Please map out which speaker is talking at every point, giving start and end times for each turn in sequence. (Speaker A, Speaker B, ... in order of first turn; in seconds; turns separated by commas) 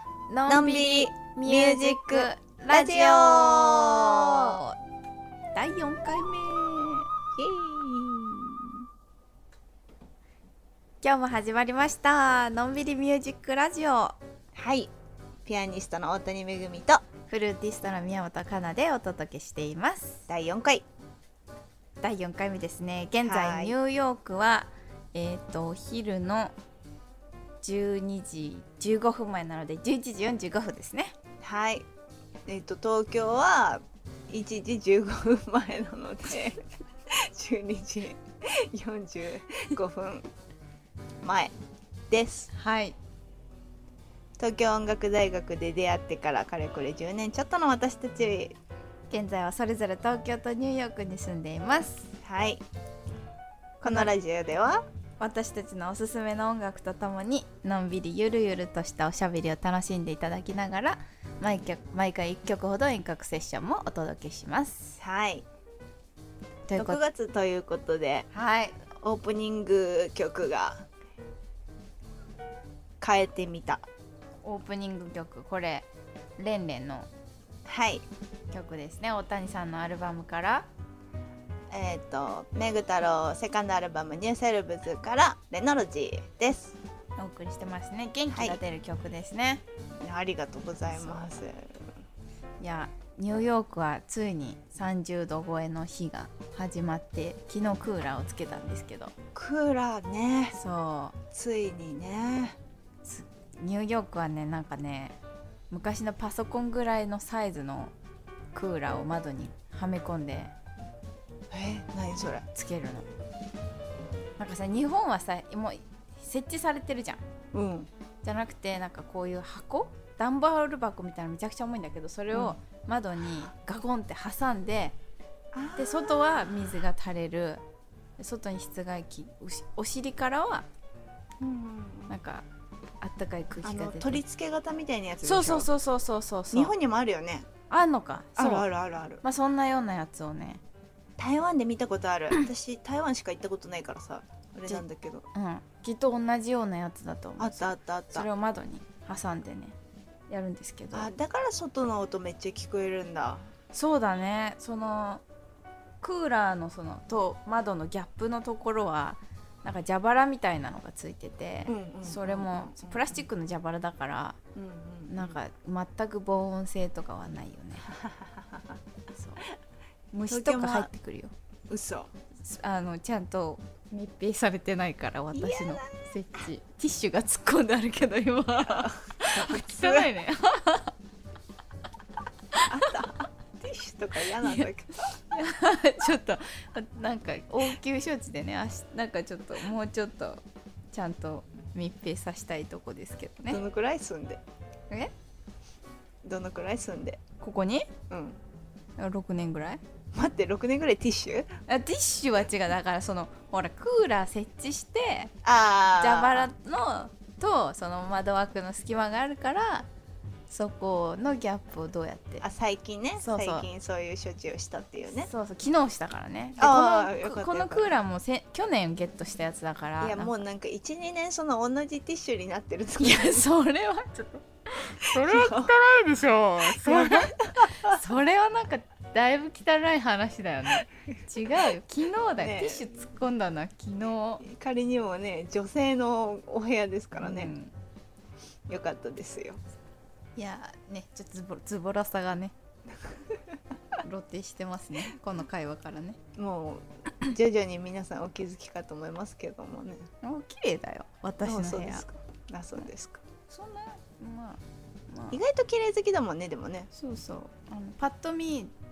Speaker A: 0.3-4.8, Speaker B: 0.5-4.6, Speaker A: 5.5-7.1, Speaker B: 7.4-8.8, Speaker A: 11.0-14.2, Speaker B: 14.5-14.9, Speaker B: 15.4-17.1, Speaker A: 17.3-20.3, Speaker B: 20.3-20.9, Speaker A: 22.0-26.5, Speaker B: 23.2-23.8, Speaker A: 27.6-31.2, Speaker B: 31.4-31.9, Speaker B: 32.5-40.3, Speaker B: 41.2-41.5, Speaker B: 42.1-42.5, Speaker A: 42.5-43.0, Speaker B: 44.4-48.6, Speaker A: 49.1-52.1, Speaker B: 52.2-52.6, Speaker A: 53.8-54.1, Speaker B: 53.8-54.8, Speaker A: 55.2-65.0, Speaker B: 65.0-65.5, Speaker A: 66.7-67.0, Speaker B: 66.8-68.3, Speaker A: 68.3-68.9, Speaker B: 69.0-70.9, Speaker B: 73.0-73.9, Speaker A: 74.4-77.1, Speaker B: 77.7-78.0, Speaker A: 78.5-80.7, Speaker B: 81.7-86.8, Speaker A: 87.2-89.6, Speaker B: 88.3-88.6, Speaker B: 90.0-91.9, Speaker A: 90.9-91.2, Speaker A: 92.6-99.2, Speaker B: 99.3-100.6, Speaker A: 100.5-101.2, Speaker B: 101.3-102.6, Speaker A: 103.0-105.2, Speaker A: 105.7-107.9, Speaker A: 108.5-110.5, Speaker B: 111.5-112.5, Speaker A: 112.5-113.1, Speaker A: 114.4-117.2, Speaker B: 117.5-117.9, Speaker A: 118.2-125.0, Speaker B: 125.5-126.5, Speaker A: 125.8-127.6, Speaker A: 128.2-130.7, Speaker B: 131.4-132.1, Speaker A: 132.1-132.5, Speaker A: 133.0-134.2, Speaker B: 133.6-135.7, Speaker A: 135.2-136.7, Speaker B: 136.5-137.5, Speaker A: 137.7-138.7, Speaker B: 138.4-139.2, Speaker A: 139.2-140.6, Speaker B: 141.2-145.3, Speaker A: 144.7-149.8, Speaker B: 147.4-148.3, Speaker A: 150.3-151.1, Speaker B: 150.9-153.5, Speaker A: 153.7-155.2, Speaker A: 156.0-164.4, Speaker B: 161.7-163.0, Speaker B: 164.6-165.4, Speaker A: 165.1-167.9, Speaker B: 167.9-168.8, Speaker A: 169.1-169.5, Speaker A: 170.1-171.3, Speaker B: 170.3-170.9, Speaker B: 171.7-172.1, Speaker A: 172.4-180.9, Speaker B: 175.3-175.9, Speaker B: 178.7-180.1, Speaker A: 182.5-183.1, Speaker B: 182.7-185.0, Speaker A: 184.3-184.7, Speaker A: 185.3-193.6, Speaker B: 193.5-194.4, Speaker B: 196.2-197.2, Speaker A: 197.4-197.9, Speaker B: 198.1-198.4, Speaker A: 199.0-199.8, Speaker B: 200.1-201.6, Speaker A: 201.7-205.3, Speaker B: 205.4-206.5, Speaker A: 206.0-209.9, Speaker A: 210.5-212.5, Speaker B: 212.4-215.3, Speaker A: 213.2-213.7, Speaker A: 215.2-220.3, Speaker B: 216.6-217.9, Speaker B: 220.0-223.5, Speaker A: 223.0-234.4, Speaker B: 225.1-225.7, Speaker B: 226.6-228.0, Speaker B: 232.4-232.9, Speaker B: 234.4-237.5, Speaker A: 237.2-237.7, Speaker B: 238.7-239.6, Speaker A: 240.4-242.5, Speaker B: 243.0-243.6, Speaker A: 244.0-246.2, Speaker B: 246.4-250.1, Speaker A: 250.2-252.1, Speaker B: 251.4-253.2, Speaker A: 253.5-255.4, Speaker B: 255.3-256.9, Speaker A: 256.9-258.7